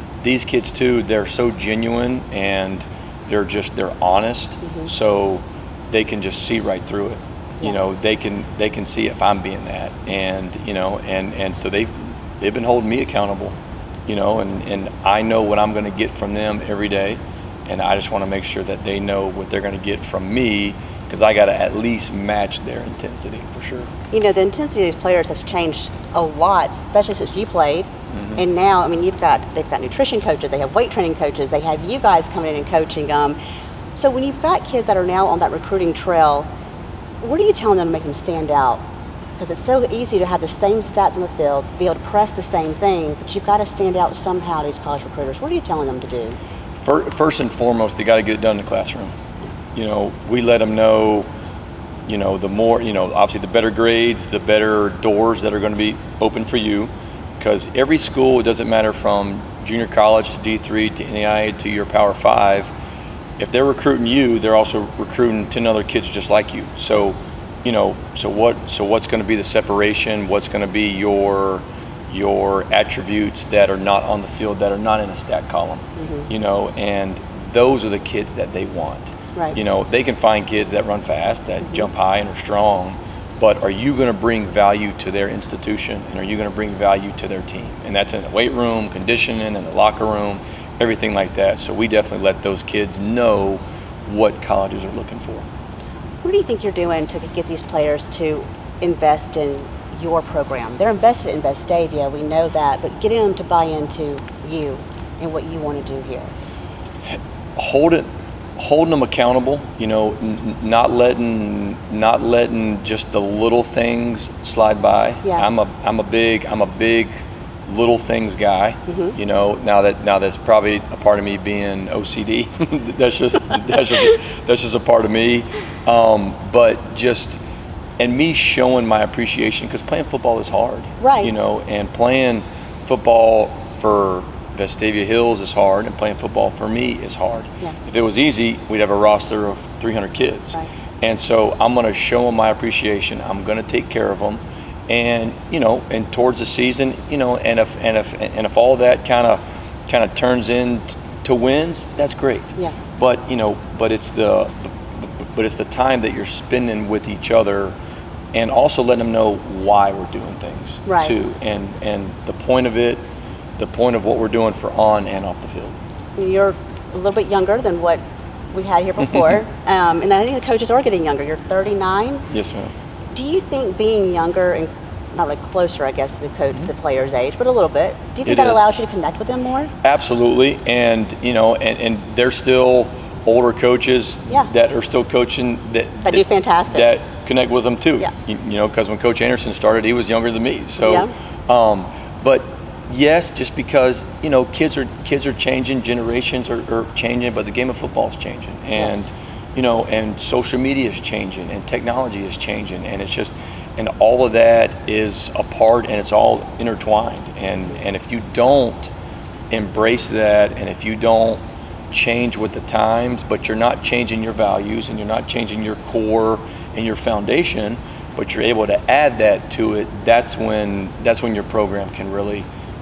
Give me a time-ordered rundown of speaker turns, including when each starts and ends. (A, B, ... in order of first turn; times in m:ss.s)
0:00.2-0:13.6 A
0:04.6-0:04.9 B
0:14.1-0:23.9 A
0:24.1-0:33.4 B
0:28.1-0:28.4 A
0:34.0-0:36.5 B
0:37.2-0:38.8 B
0:39.4-0:46.4 B
0:46.8-0:49.2 A
0:49.7-0:51.3 A
0:52.1-1:02.7 A
1:03.4-1:35.5 A
1:16.0-1:16.3 B
1:36.2-1:46.3 B
1:47.6-2:07.4 A
1:58.9-1:59.2 B
2:08.0-2:37.7 A
2:11.0-2:11.3 B
2:38.3-2:43.0 A
2:40.9-2:41.2 B
2:43.6-2:45.8 A
2:46.2-2:52.3 B
2:52.3-2:52.7 A
2:53.1-2:59.7 B
2:58.3-2:58.6 A
2:59.8-3:28.9 A
3:06.1-3:06.9 B
3:10.8-3:11.1 B
3:18.8-3:19.1 B
3:29.5-3:42.5 A